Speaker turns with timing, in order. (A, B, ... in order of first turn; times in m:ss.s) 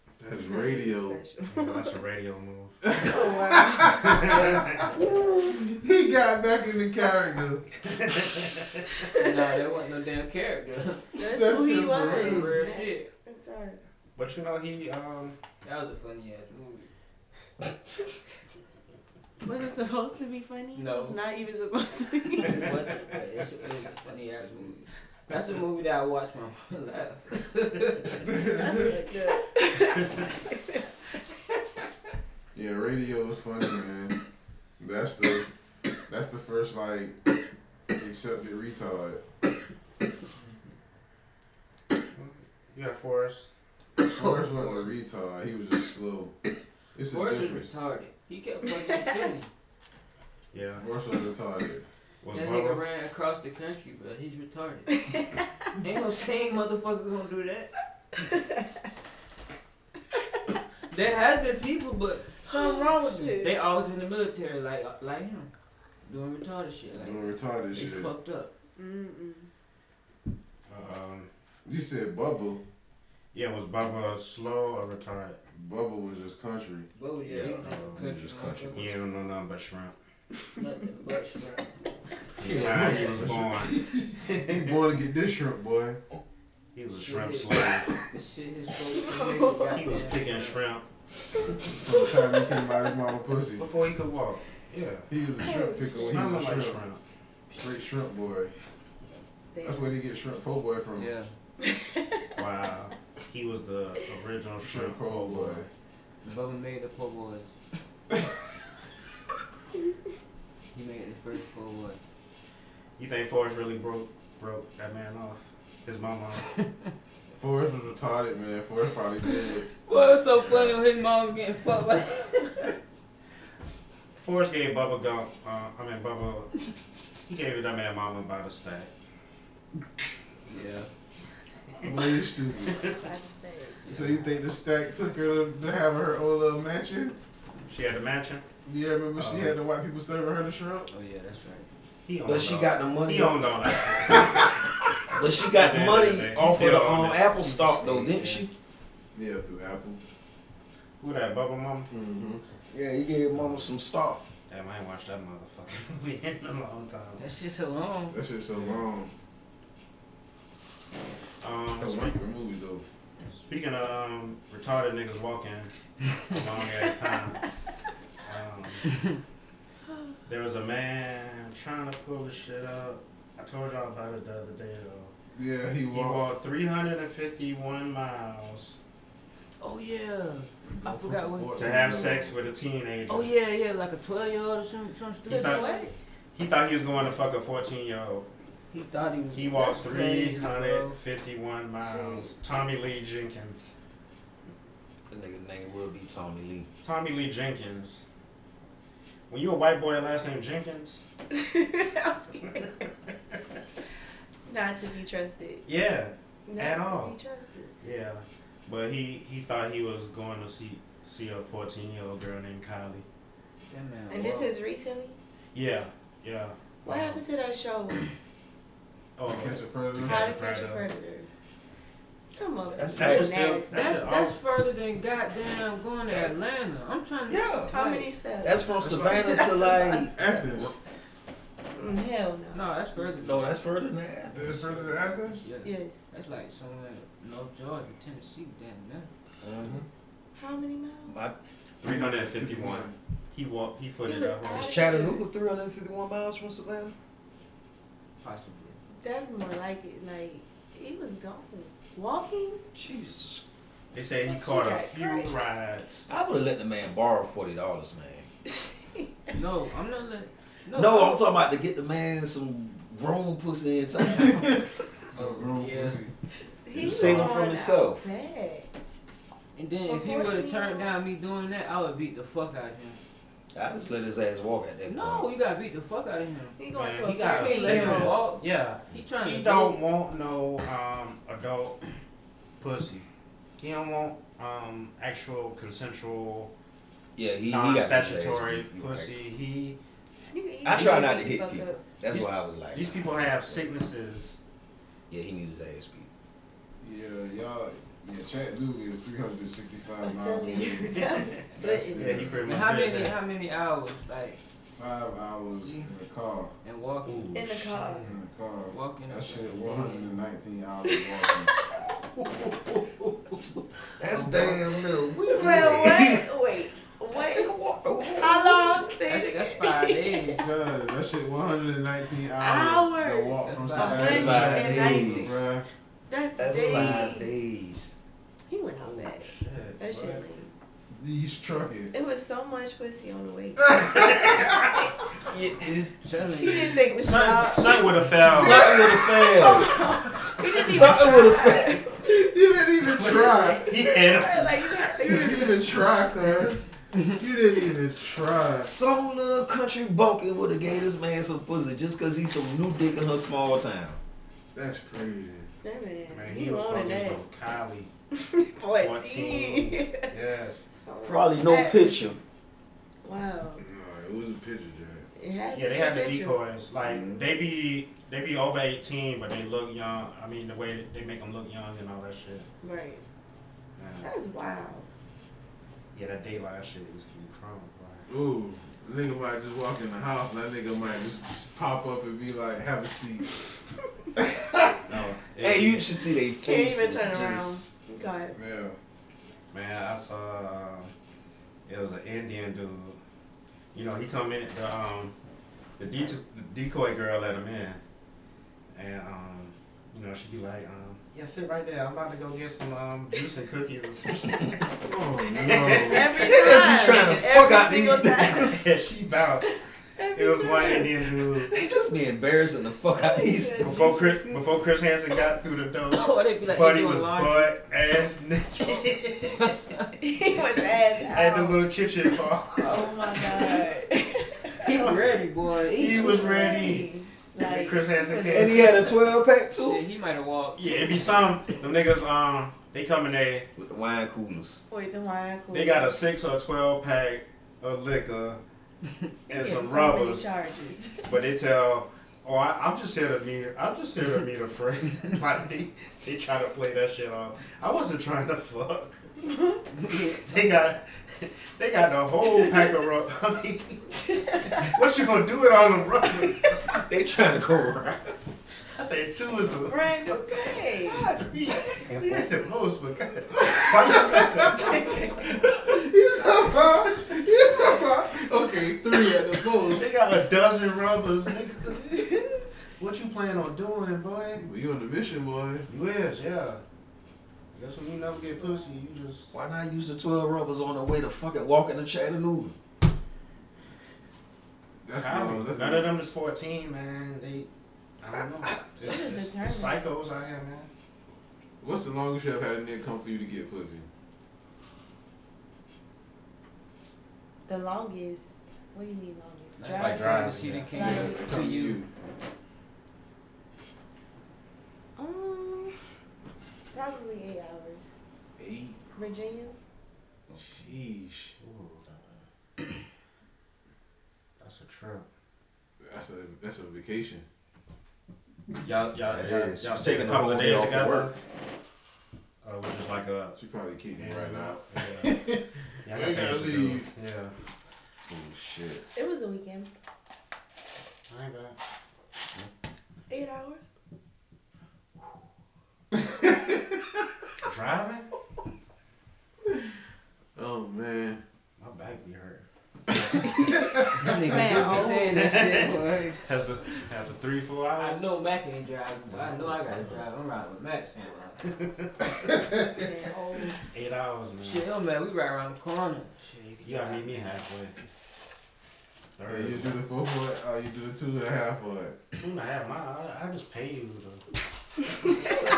0:00.2-0:01.2 A
0:00.4-0:02.0 B
0:01.5-0:02.9 C
0:02.8-0:07.6 A
0:03.0-0:04.6 B
0:03.9-0:04.9 C
0:07.9-0:08.8 C
0:09.0-0:09.3 B
0:09.2-0:11.2 D
0:11.2-0:13.8 B
0:11.2-0:12.6 A
0:11.9-0:13.0 D
0:14.2-0:15.4 C
0:15.6-0:16.9 D
0:19.4-0:22.6 B
0:20.8-0:21.2 D
0:22.4-0:28.2 D
0:28.2-0:29.0 A
0:28.6-0:30.9 B
0:32.5-0:34.2 A
0:34.8-0:35.5 A
0:36.1-0:37.2 A
0:38.0-0:39.2 A
0:42.1-0:43.5 C
0:44.0-0:46.3 A
0:44.0-0:44.9 D
0:47.0-0:47.7 A
0:47.1-0:49.5 D
0:50.5-0:50.9 C
0:50.8-0:51.9 A
0:52.2-0:52.8 C
0:52.3-0:54.9 D
0:55.8-0:57.7 D
0:58.3-0:58.6 B
1:00.9-1:05.5 D
1:02.5-1:03.5 B
1:06.0-1:08.5 D
1:06.9-1:08.1 A
1:08.8-1:09.5 B
1:10.7-1:11.3 C
1:11.6-1:12.6 A
1:13.3-1:15.4 C
1:15.5-1:16.9 A
1:17.0-1:19.0 D
1:17.2-1:18.9 E
1:17.4-1:18.1 C
1:18.7-1:20.0 C
1:20.6-1:21.7 D
1:22.4-1:24.8 C
1:22.4-1:26.0 A
1:22.6-1:23.1 D
1:26.8-1:27.9 C
1:26.9-1:30.6 D
1:29.1-1:29.8 B
1:29.7-1:30.8 C
1:31.7-1:33.7 A
1:33.6-1:35.1 C
1:35.1-1:36.8 A
1:35.4-1:36.3 B
1:35.9-1:37.0 C
1:37.5-1:38.5 A
1:39.5-1:39.9 B
1:39.6-1:41.1 A
1:41.0-1:41.3 D
1:41.6-1:42.3 B
1:42.4-1:45.7 C
1:44.6-1:45.7 A
1:46.2-1:47.5 D
1:50.7-1:52.0 D
1:53.0-1:56.5 C
1:57.3-1:59.7 A
1:59.8-2:02.7 D
2:00.4-2:00.8 A
2:04.2-2:06.5 C
2:07.3-2:08.9 C
2:10.5-2:10.9 D
2:11.8-2:12.8 A
2:12.8-2:13.9 B
2:13.8-2:14.3 D
2:13.9-2:17.2 A
2:17.7-2:18.4 C
2:18.6-2:20.9 A
2:19.2-2:19.6 C
2:20.9-2:21.7 D
2:22.0-2:24.5 C
2:22.2-2:24.2 E
2:25.1-2:28.5 E
2:25.4-2:27.8 C
2:27.4-2:28.5 D
2:29.2-2:30.0 A
2:31.0-2:31.9 C
2:31.9-2:32.4 A
2:32.7-2:34.2 E
2:33.3-2:33.7 C
2:34.5-2:37.2 C
2:37.2-2:38.2 D
2:38.1-2:39.1 A
2:41.4-2:42.2 C
2:41.8-2:42.8 A
2:43.4-2:45.7 C
2:46.2-2:47.4 C
2:48.2-2:49.0 C
2:50.3-2:55.1 C
2:55.3-2:56.3 A
2:55.9-2:58.8 C
2:59.6-3:01.7 D
3:00.7-3:02.4 A
3:01.5-3:03.3 C
3:03.1-3:05.9 D
3:05.2-3:05.8 C
3:05.2-3:05.9 B
3:06.3-3:08.3 C
3:08.7-3:11.0 D
3:09.3-3:13.8 C
3:11.8-3:12.4 D
3:15.1-3:16.7 E
3:16.8-3:18.0 C
3:19.3-3:21.0 C
3:21.3-3:22.9 B
3:24.5-3:25.7 B
3:25.7-3:27.2 C
3:26.5-3:27.7 B
3:27.8-3:33.1 C
3:33.7-3:34.5 D
3:34.1-3:35.2 B
3:35.5-3:37.2 C
3:36.8-3:38.1 B
3:39.2-3:40.9 C
3:39.3-3:40.3 A
3:40.0-3:41.3 B
3:42.4-3:44.0 B
3:42.7-3:43.6 E
3:43.0-3:44.4 C
3:43.7-3:48.1 D
3:47.3-3:47.7 E
3:47.7-3:50.4 B
3:48.4-3:50.7 E
3:48.8-3:49.3 A
3:50.2-3:50.8 A
3:51.7-3:52.6 B
3:52.5-3:53.5 D
3:53.2-3:54.5 E
3:54.3-3:55.4 A
3:54.4-3:59.1 D
3:55.6-3:56.0 B
3:59.4-3:59.8 E
4:00.4-4:01.2 B
4:01.1-4:01.4 E
4:01.8-4:04.7 C
4:01.8-4:02.9 A
4:04.0-4:05.3 B
4:04.5-4:07.0 E
4:08.2-4:08.8 D
4:09.0-4:12.6 B
4:12.7-4:13.4 E
4:13.9-4:16.1 C
4:14.2-4:15.3 B
4:16.1-4:18.3 E
4:18.6-4:19.0 B
4:19.3-4:21.2 D
4:20.8-4:24.6 E
4:24.2-4:26.1 A
4:25.1-4:26.0 D
4:26.7-4:28.7 B
4:26.7-4:28.0 E
4:27.0-4:27.3 C
4:29.6-4:33.0 D
4:29.9-4:31.0 B
4:33.5-4:35.3 E
4:34.8-4:36.6 D
4:36.6-4:38.2 B
4:36.7-4:41.8 C
4:37.3-4:39.8 D
4:42.6-4:43.1 C
4:43.6-4:46.5 C
4:47.2-4:49.1 E
4:47.4-4:49.8 C
4:50.3-4:52.0 B
4:50.6-4:53.5 E
4:52.1-4:54.4 C
4:55.1-4:56.1 E
4:56.8-5:01.0 A
5:00.0-5:02.3 B
5:01.6-5:02.4 A
5:01.9-5:03.2 C
5:02.4-5:04.4 D
5:04.7-5:06.5 A
5:05.6-5:05.9 D
5:06.6-5:07.4 D
5:07.0-5:08.1 C
5:07.3-5:08.1 B
5:08.0-5:11.5 A
5:08.7-5:10.2 D
5:12.1-5:13.4 C
5:13.4-5:16.3 E
5:14.1-5:14.5 C
5:15.3-5:17.5 B
5:17.1-5:18.8 E
5:18.0-5:20.4 B
5:19.0-5:20.4 D
5:20.4-5:25.7 A
5:22.4-5:25.4 B
5:23.4-5:24.6 D
5:24.0-5:25.4 E
5:26.1-5:27.3 B
5:26.4-5:27.9 E
5:28.5-5:30.5 B
5:28.8-5:30.2 C
5:30.9-5:31.9 A
5:31.9-5:34.1 B
5:33.9-5:34.4 C
5:35.3-5:35.9 E
5:36.0-5:36.9 D
5:36.4-5:42.1 B
5:37.0-5:38.7 C
5:38.2-5:39.0 A
5:38.2-5:39.8 E
5:40.4-5:41.8 E
5:42.0-5:43.7 A
5:42.9-5:45.8 B
5:42.9-5:44.9 C
5:45.0-5:48.7 A
5:48.6-5:54.0 E
5:54.5-5:55.5 A
5:55.6-5:57.2 B
5:56.1-5:57.9 C
5:58.2-6:00.1 B
5:58.8-6:00.6 C
6:00.8-6:02.0 B
6:01.1-6:02.2 E
6:03.0-6:03.6 B
6:03.6-6:05.1 A
6:05.1-6:06.4 B
6:05.5-6:12.5 C
6:06.8-6:07.3 A
6:12.6-6:13.0 B
6:13.8-6:14.1 C
6:14.0-6:14.9 B
6:15.9-6:18.1 C
6:18.1-6:23.3 A
6:24.2-6:24.8 A
6:24.9-6:25.9 C
6:25.4-6:27.7 E
6:26.4-6:28.4 B
6:28.4-6:28.8 A
6:29.5-6:30.9 C
6:31.7-6:33.0 C
6:33.7-6:35.2 C
6:35.8-6:37.8 C
6:38.7-6:44.7 C
6:44.8-6:46.3 A
6:45.3-6:47.2 C
6:45.7-6:48.7 B
6:46.2-6:48.7 E
6:48.5-6:49.6 C
6:49.4-6:51.1 B
6:50.1-6:51.5 C
6:51.4-6:53.8 E
6:53.0-6:54.4 B
6:53.6-6:59.6 C
6:55.9-6:57.5 D
6:59.4-6:59.9 D
7:00.0-7:01.6 B
7:01.0-7:03.4 C
7:02.6-7:05.0 B
7:04.6-7:06.6 D
7:05.7-7:08.9 C
7:05.8-7:08.9 B
7:08.3-7:09.8 E
7:09.6-7:11.4 D
7:10.6-7:13.5 C
7:13.6-7:14.6 E
7:14.7-7:16.0 B
7:15.5-7:18.4 C
7:19.3-7:20.4 C
7:19.3-7:21.1 B
7:21.1-7:29.0 C
7:29.2-7:29.6 B
7:29.8-7:30.3 D
7:30.2-7:33.8 C
7:34.6-7:36.6 C
7:36.9-7:38.2 E
7:38.8-7:40.2 C
7:39.6-7:41.1 B
7:40.9-7:45.2 C
7:41.0-7:42.3 E
7:44.7-7:45.1 B
7:45.6-7:49.9 A
7:49.7-7:52.1 C
7:52.8-7:54.4 C
7:54.4-7:55.7 A
7:55.7-7:56.6 C
7:57.5-7:59.3 C
7:58.4-7:58.8 B
7:59.3-8:02.6 E
8:04.8-8:06.0 A
8:05.0-8:07.5 C
8:08.0-8:10.7 C
8:08.8-8:09.8 B
8:11.6-8:13.9 A
8:17.5-8:21.3 B
8:19.6-8:21.8 D
8:19.8-8:20.8 C
8:20.7-8:21.9 A
8:25.0-8:25.8 B
8:26.7-8:28.0 B
8:28.4-8:28.8 A
8:29.0-8:29.6 B
8:30.3-8:31.4 A
8:31.4-8:31.8 C
8:34.4-8:35.1 C
8:35.8-8:37.2 A
8:38.6-8:41.2 C
8:39.0-8:41.1 E
8:42.4-8:43.4 C
8:43.4-8:46.9 A
8:44.0-8:45.2 C
8:45.8-8:47.3 C
8:48.1-8:48.8 A
8:49.0-8:49.7 B
8:51.1-8:51.6 C
8:53.1-8:53.6 B
8:56.1-8:56.4 A
8:57.4-8:58.1 C
9:00.4-9:01.2 A
9:01.6-9:08.1 C
9:03.9-9:06.2 D
9:07.8-9:11.5 D
9:09.1-9:10.0 C
9:11.4-9:12.3 C
9:12.6-9:13.6 B
9:13.7-9:14.6 C
9:14.4-9:17.2 D
9:16.6-9:17.8 C
9:19.2-9:19.8 C
9:19.3-9:22.0 A
9:22.2-9:24.2 C